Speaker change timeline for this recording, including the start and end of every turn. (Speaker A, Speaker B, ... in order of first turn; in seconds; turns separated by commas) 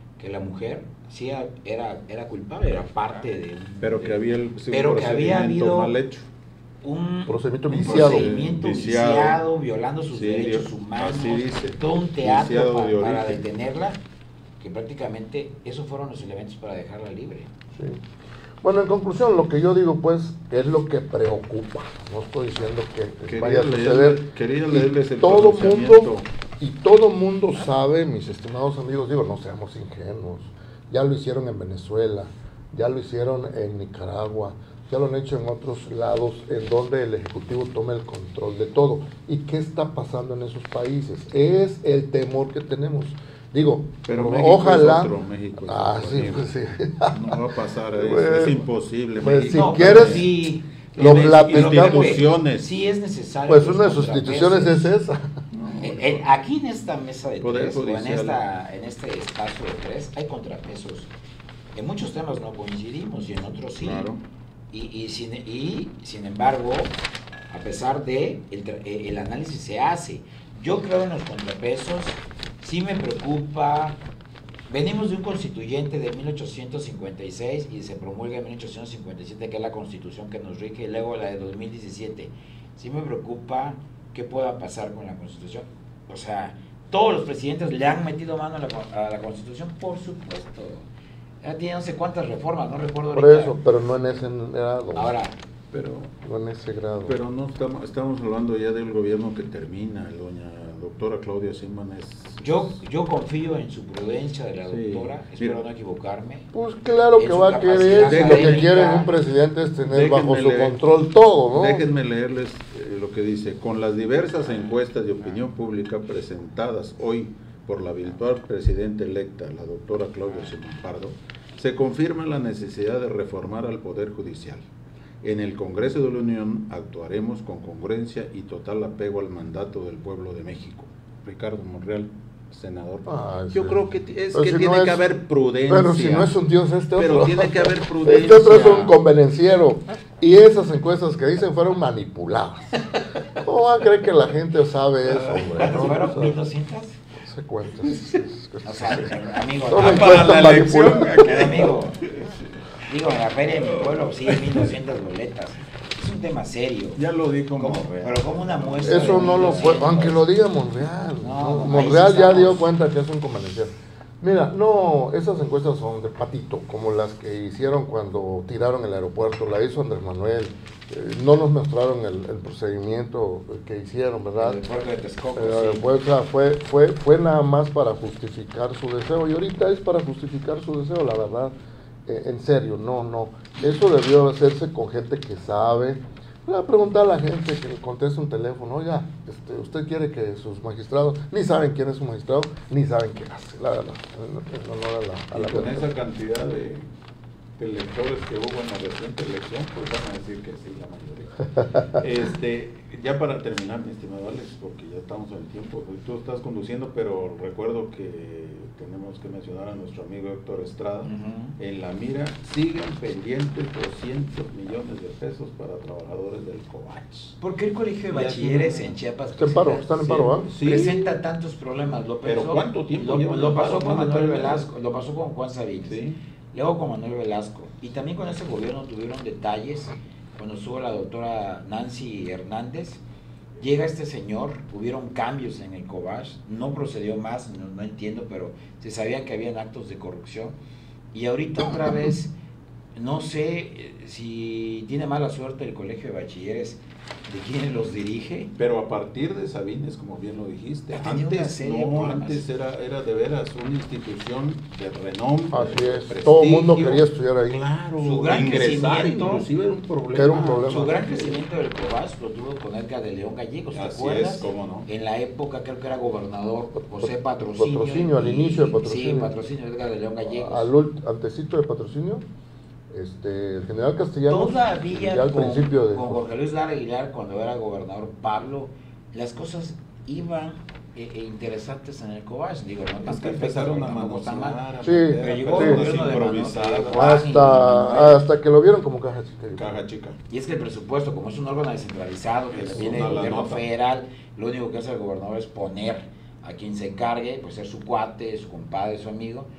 Speaker A: 0.2-4.2, Speaker B: 3.8-6.3, Speaker A: 4.7-5.9, Speaker A: 6.8-14.0, Speaker C: 7.3-8.3, Speaker B: 7.7-9.4, Speaker B: 10.1-13.4, Speaker A: 14.6-17.5, Speaker C: 17.7-18.0, Speaker C: 18.6-45.1, Speaker B: 23.3-26.2, Speaker B: 44.1-50.3, Speaker C: 45.6-47.4, Speaker C: 48.0-48.6, Speaker C: 49.2-50.3, Speaker A: 49.5-54.9, Speaker B: 51.0-52.6, Speaker C: 51.0-52.2, Speaker C: 53.5-55.3, Speaker B: 55.5-56.2, Speaker A: 55.8-61.1, Speaker B: 57.4-58.4, Speaker A: 61.7-64.1, Speaker B: 63.8-64.2, Speaker A: 64.7-66.9, Speaker A: 67.5-74.0, Speaker A: 74.7-90.9, Speaker A: 91.4-93.6, Speaker C: 93.1-95.1, Speaker A: 94.9-95.3, Speaker B: 95.7-96.1, Speaker C: 96.2-97.2, Speaker B: 97.0-102.7, Speaker A: 102.4-106.5, Speaker B: 104.7-105.6, Speaker C: 106.5-111.8, Speaker A: 107.2-109.1, Speaker B: 108.0-108.7, Speaker B: 109.8-110.8, Speaker B: 111.5-124.6, Speaker B: 125.2-136.3, Speaker C: 133.1-135.0, Speaker C: 135.7-146.4, Speaker B: 136.9-139.0, Speaker B: 145.1-146.0, Speaker A: 145.6-147.0, Speaker C: 147.2-149.1, Speaker A: 148.6-152.0, Speaker C: 149.7-151.1, Speaker B: 149.8-152.3, Speaker A: 152.8-157.0, Speaker B: 153.6-154.7, Speaker B: 156.9-159.9, Speaker A: 157.6-160.2, Speaker C: 158.8-174.6, Speaker A: 161.2-162.7, Speaker A: 174.4-175.8, Speaker C: 175.3-181.5, Speaker C: 182.1-195.9, Speaker B: 195.3-196.8, Speaker B: 197.6-217.4, Speaker A: 211.0-211.5, Speaker A: 217.4-226.0, Speaker B: 218.1-218.9, Speaker C: 219.3-220.5, Speaker B: 220.0-221.2, Speaker B: 222.2-224.7, Speaker B: 225.8-226.2, Speaker A: 226.5-233.0, Speaker A: 233.6-240.6, Speaker A: 241.1-242.3, Speaker A: 242.9-248.5, Speaker B: 248.6-261.4, Speaker A: 250.9-252.4, Speaker C: 255.5-257.6, Speaker A: 258.0-259.5, Speaker C: 260.1-261.0, Speaker A: 260.6-270.7, Speaker B: 263.7-264.9, Speaker C: 267.0-269.3, Speaker C: 270.3-272.2, Speaker C: 272.9-276.2, Speaker A: 274.3-284.6, Speaker B: 283.0-287.2, Speaker C: 284.8-285.8, Speaker A: 285.2-288.2, Speaker C: 286.9-289.7, Speaker B: 289.6-290.2, Speaker A: 290.3-299.5, Speaker B: 292.5-293.6